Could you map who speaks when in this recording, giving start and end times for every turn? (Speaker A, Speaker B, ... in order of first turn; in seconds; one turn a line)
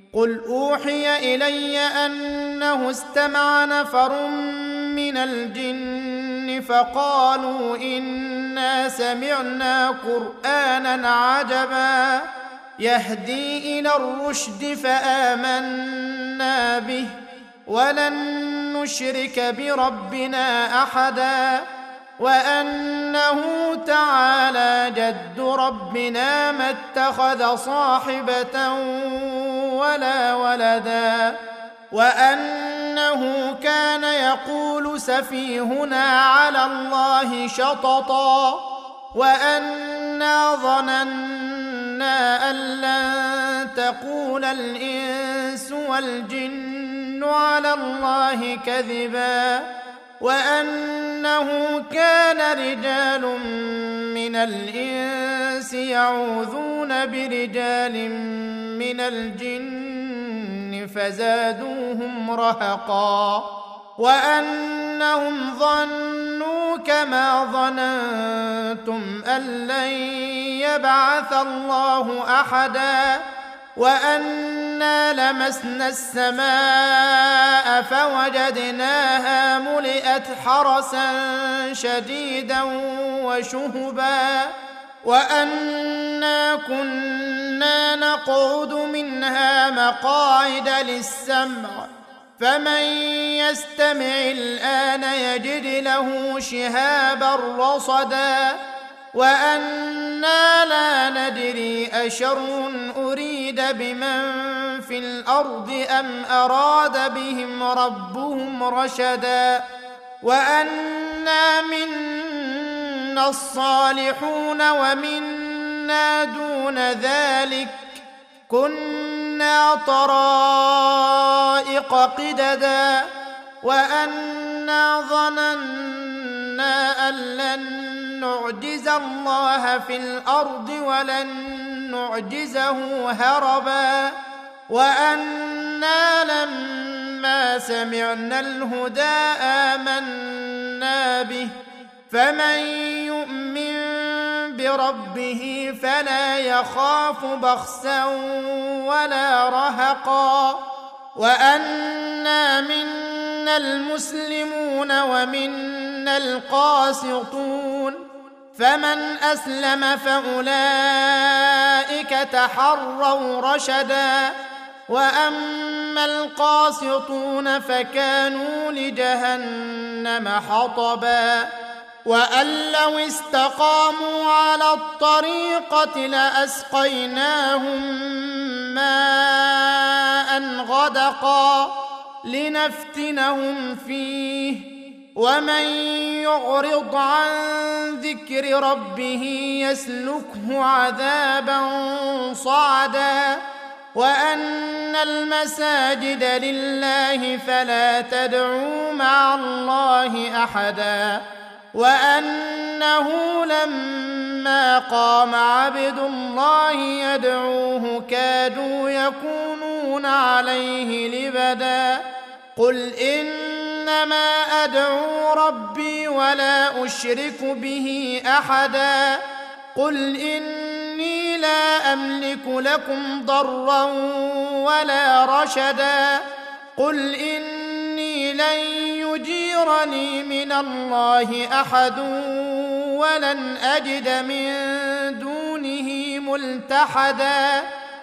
Speaker A: 0.1-17.1
Speaker A: 17.7-21.6
Speaker A: 22.2-31.4
Speaker A: 31.9-49.7
Speaker A: 50.2-73.2
Speaker A: 73.8-98.6
Speaker A: 99.1-109.6
Speaker A: 110.2-123.1
Speaker A: 123.6-134.2
Speaker A: 134.7-141.5
Speaker A: 142.1-150.6
Speaker A: 151.2-158.0
Speaker A: 158.5-164.3
Speaker A: 164.9-171.5
Speaker A: 172.0-193.4
Speaker A: 193.9-212.0
Speaker A: 212.6-219.2
Speaker A: 219.7-226.2
Speaker A: 226.8-237.7